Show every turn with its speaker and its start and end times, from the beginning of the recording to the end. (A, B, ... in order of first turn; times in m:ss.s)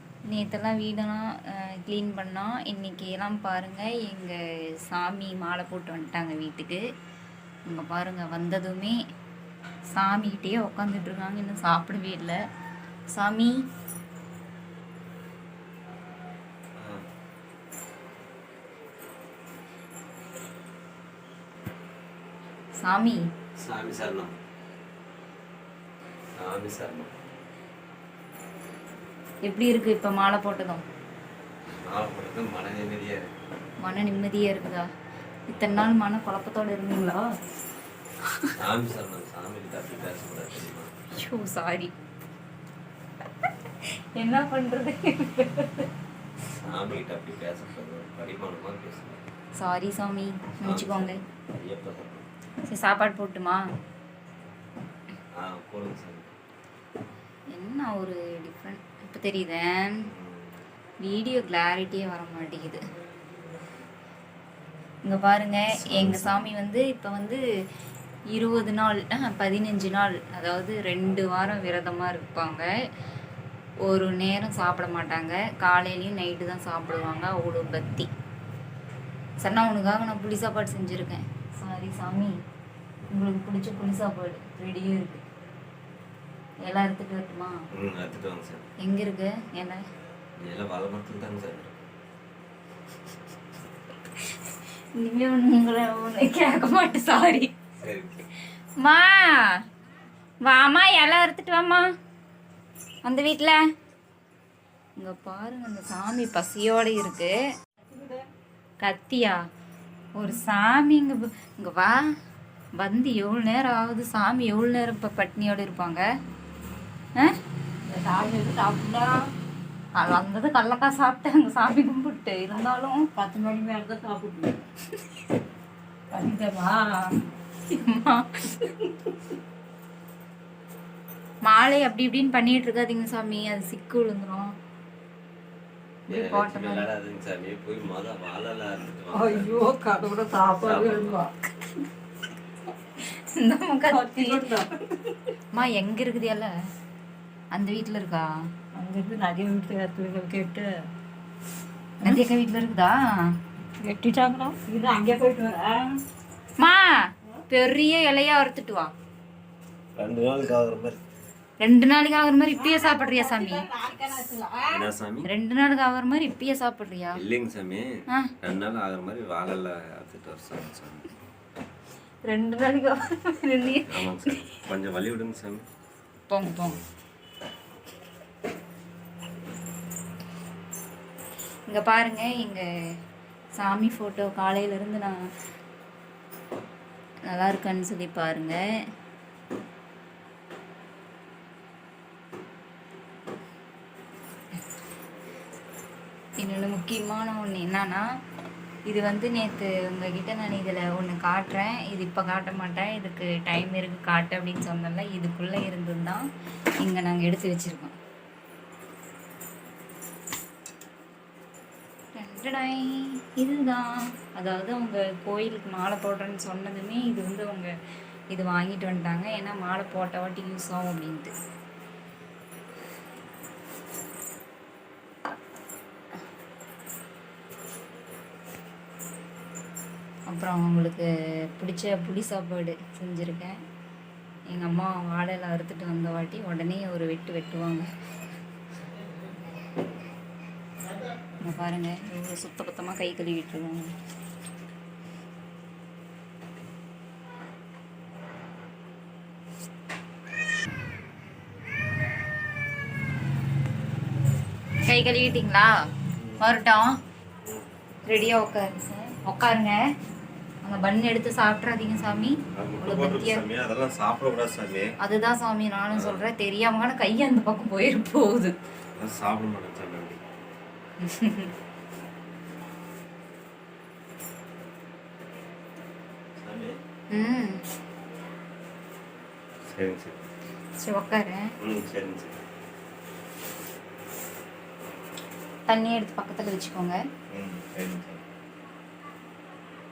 0:00.3-0:04.4 A
0:04.9-0:06.8 A
0:07.7-0:09.0 A
0:09.9-0:12.4 A
0:13.1-0:13.5 A
0:16.8-0:17.0 B
0:22.8-0:23.2 A
0:23.6-0:24.3 B
0:26.4-0:27.1 B
0:29.4-0:30.8 A
0:31.8-0:33.3 B
0:33.8-0:34.9 A
0:35.5-0:37.2 A
0:38.6-0:40.9 B
0:41.1-0:41.9 A
0:44.1-0:45.9 A
0:46.6-0:49.2 B
0:49.6-0:51.2 A
0:50.6-0:52.3 B
0:52.7-0:53.6 A
0:55.3-0:56.3 B
0:57.5-1:00.1 A
1:00.0-1:00.5 B
1:01.0-1:02.8 A
1:05.0-1:07.4 A
1:05.7-1:06.4 B
1:08.3-1:12.7 A
1:13.8-1:18.1 A
1:19.4-1:22.3 A
1:23.1-1:25.2 A
1:26.6-1:27.6 A
1:27.7-1:28.7 B
1:28.8-1:29.8 A
1:30.4-1:31.8 B
1:35.0-1:37.5 A
1:37.8-1:38.3 B
1:38.8-1:39.4 A
1:40.4-1:41.9 A
1:43.0-1:43.6 A
1:45.0-1:47.3 A
1:47.8-1:48.2 C
1:48.8-1:49.4 A
1:50.2-1:52.0 A
1:52.8-1:56.0 A
1:57.9-1:59.2 C
2:00.0-2:03.0 A
2:03.2-2:04.6 C
2:06.1-2:07.0 C
2:07.7-2:08.6 A
2:11.4-2:14.5 A
2:16.1-2:16.9 A
2:16.1-2:19.6 B
2:19.1-2:21.3 C
2:20.6-2:21.2 B
2:23.0-2:24.4 A
2:23.9-2:25.1 C
2:25.5-2:26.5 A
2:27.5-2:28.3 A
2:28.7-2:30.7 C
2:32.0-2:32.9 A
2:33.8-2:35.9 C
2:36.6-2:37.0 A
2:37.5-2:38.9 A
2:40.0-2:41.0 B
2:41.6-2:43.7 A
2:42.5-2:44.8 C
2:44.6-2:45.3 B
2:45.3-2:47.2 A
2:47.1-2:47.9 B
2:48.4-2:51.1 B
2:52.2-2:54.5 A
2:53.9-2:55.6 B
2:56.3-2:56.8 A
3:01.7-3:02.6 A
3:03.6-3:05.2 A
3:07.3-3:08.6 A
3:16.4-3:18.0 A
3:18.9-3:26.2 A
3:26.8-3:27.9 A
3:32.1-3:37.7 A
3:38.3-3:41.3 A
3:50.3-3:53.6 A
3:54.5-3:57.9 A
4:01.4-4:03.9 A
4:14.8-4:15.7 A
4:16.1-4:16.4 B
4:16.4-4:17.0 A
4:18.0-4:19.8 A
4:20.6-4:23.4 A
4:22.5-4:25.0 B
4:25.0-4:28.5 A
4:25.9-4:26.3 B
4:28.9-4:30.2 B
4:31.0-4:31.5 A
4:36.4-4:36.7 B
4:37.1-4:37.6 A
4:39.7-4:40.3 B
4:40.8-4:41.4 A
4:41.6-4:42.4 B
4:45.7-4:47.0 A
4:47.3-4:48.2 B